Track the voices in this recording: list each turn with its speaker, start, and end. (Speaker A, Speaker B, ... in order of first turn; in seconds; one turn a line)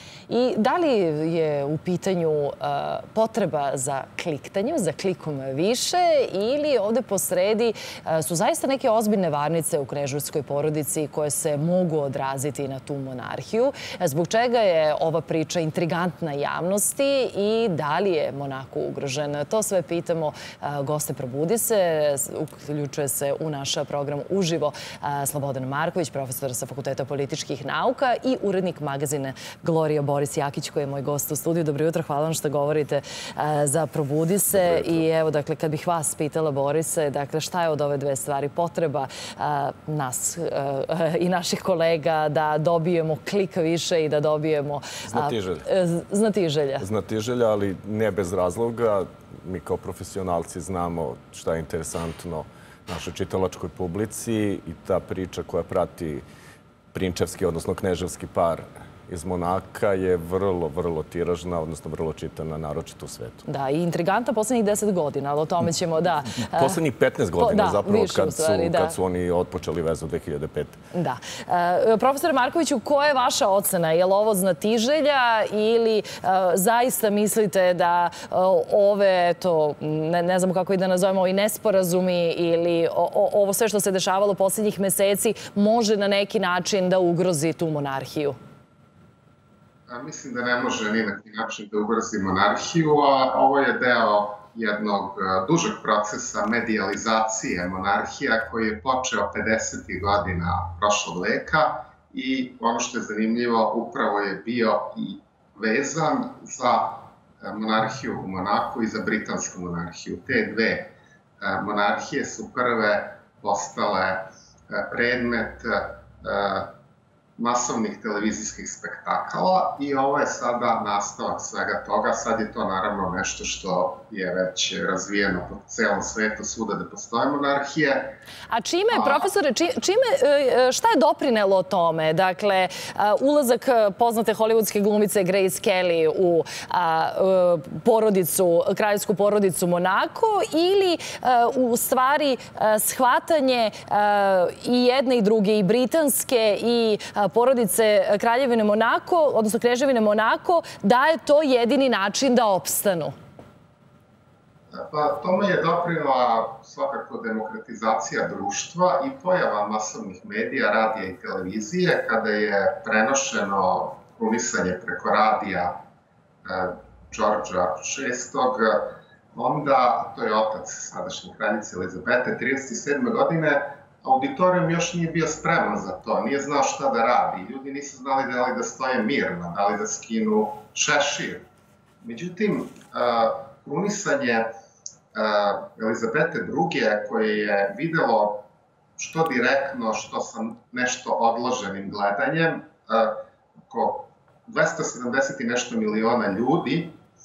Speaker A: 0.3-46.9
Speaker B: 34.5-35.0
Speaker B: 45.1-45.6
Speaker B: 46.8-56.2
Speaker B: 56.9-63.4
Speaker A: 63.5-66.8
Speaker B: 66.5-70.8
Speaker A: 67.4-69.0
Speaker A: 70.9-88.4
Speaker C: 89.9-116.7
Speaker C: 117.4-128.2
Speaker A: 128.5-153.2
Speaker C: 128.9-129.3
Speaker C: 154.7-165.8
Speaker C: 166.4-181.4
Speaker C: 182.0-184.5
Speaker C: 185.1-188.4
Speaker C: 189.0-197.0